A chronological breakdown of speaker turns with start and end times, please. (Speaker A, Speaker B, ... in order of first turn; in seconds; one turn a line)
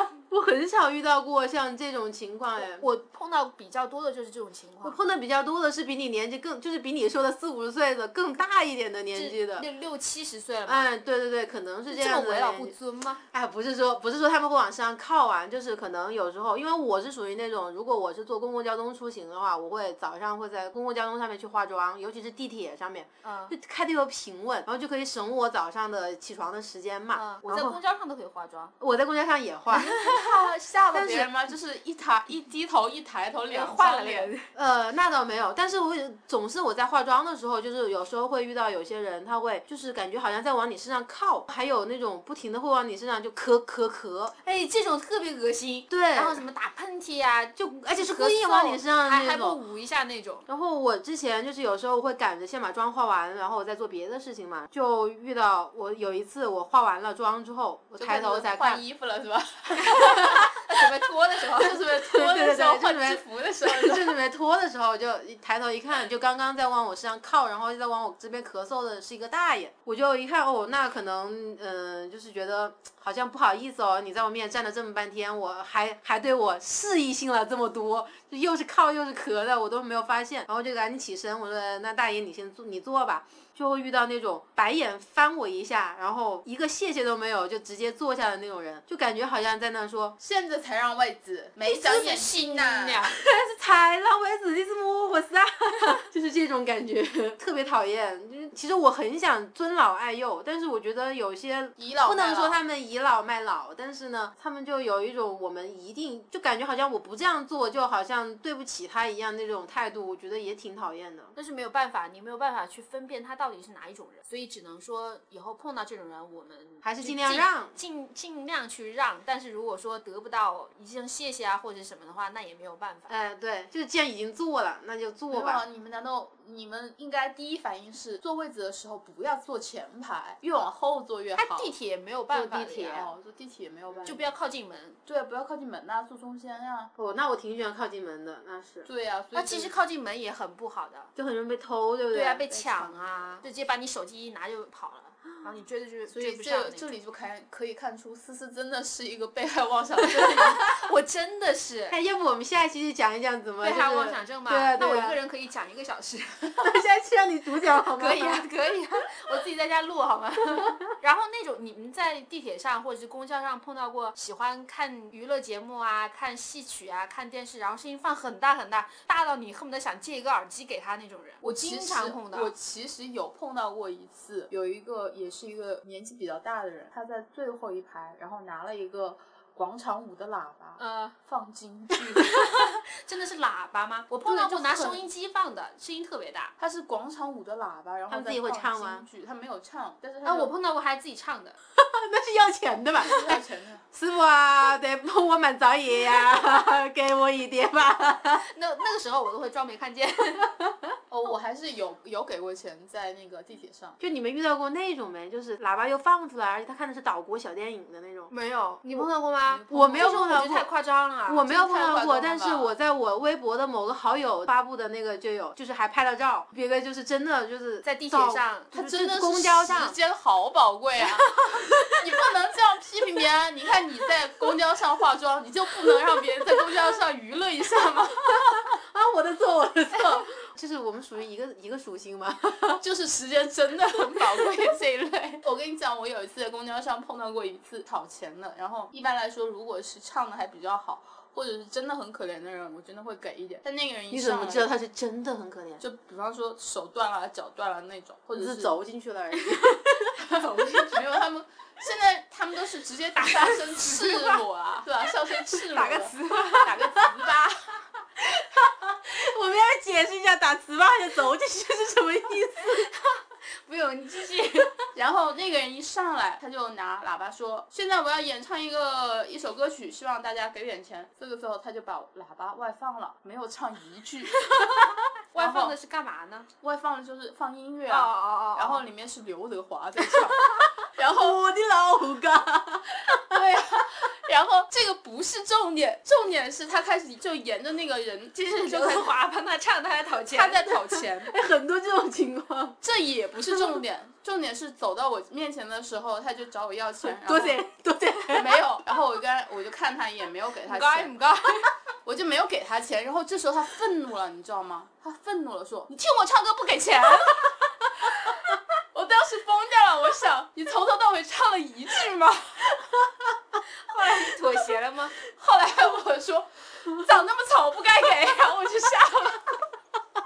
Speaker A: 0.3-2.9
Speaker B: 2.6-5.0
Speaker A: 4.8-9.7
Speaker B: 9.1-10.9
Speaker A: 10.7-12.7
Speaker B: 11.9-13.2
Speaker A: 13.3-27.8
Speaker B: 23.2-23.5
Speaker B: 27.1-28.7
Speaker A: 28.8-30.0
Speaker B: 29.7-31.2
Speaker C: 30.0-34.3
Speaker B: 33.5-34.5
Speaker A: 34.5-44.3
Speaker B: 44.4-50.5
Speaker A: 45.9-46.4
Speaker A: 47.6-49.6
Speaker A: 50.5-58.8
Speaker C: 58.0-60.2
Speaker B: 59.8-61.8
Speaker A: 60.0-60.4
Speaker C: 61.5-64.2
Speaker A: 62.0-90.2
Speaker C: 90.2-93.1
Speaker B: 91.7-93.2
Speaker A: 93.1-111.3
Speaker C: 101.8-102.6
Speaker B: 111.4-123.1
Speaker A: 116.8-117.7
Speaker A: 123.1-125.6
Speaker C: 125.3-131.8
Speaker B: 131.4-133.1
Speaker A: 132.3-132.8
Speaker C: 132.6-134.3
Speaker A: 133.9-134.2
Speaker B: 134.1-135.0
Speaker C: 135.1-136.9
Speaker A: 137.0-138.9
Speaker C: 138.9-139.7
Speaker B: 139.3-141.1
Speaker A: 141.2-143.0
Speaker B: 142.1-146.9
Speaker C: 146.1-150.7
Speaker B: 150.2-152.0
Speaker A: 151.9-155.2
Speaker B: 153.6-156.7
Speaker A: 156.6-158.4
Speaker B: 157.8-172.5
Speaker C: 171.4-182.3
Speaker B: 180.8-181.2
Speaker B: 182.2-186.5
Speaker C: 184.2-185.0
Speaker C: 186.6-190.5
Speaker A: 188.1-189.1
Speaker B: 190.2-191.6
Speaker A: 191.8-193.4
Speaker C: 193.0-193.8
Speaker A: 193.9-198.4
Speaker B: 198.4-200.7
Speaker C: 201.1-204.0
Speaker A: 204.0-208.3
Speaker B: 208.3-211.5
Speaker A: 208.9-210.7
Speaker A: 211.3-220.0
Speaker C: 211.4-212.8
Speaker B: 217.8-218.7
Speaker C: 218.7-228.6
Speaker A: 228.7-232.8
Speaker C: 232.8-244.7
Speaker A: 244.1-245.8
Speaker C: 245.8-248.8
Speaker A: 248.3-249.9
Speaker B: 249.6-251.0
Speaker C: 250.2-257.8
Speaker B: 255.7-256.7
Speaker A: 256.2-257.0
Speaker A: 258.2-262.9
Speaker B: 262.7-264.9
Speaker C: 264.9-274.4
Speaker B: 274.4-276.5
Speaker C: 275.4-275.8
Speaker C: 276.6-281.4
Speaker B: 277.9-278.9
Speaker A: 280.8-283.2
Speaker C: 283.1-289.2
Speaker B: 288.4-290.7
Speaker C: 290.3-291.3
Speaker A: 291.3-292.8
Speaker C: 292.8-297.6
Speaker A: 297.0-298.6
Speaker C: 298.3-301.1
Speaker B: 300.7-301.7
Speaker C: 302.1-308.4
Speaker C: 308.9-312.9
Speaker B: 313.9-315.2
Speaker C: 314.1-314.6
Speaker C: 315.3-319.6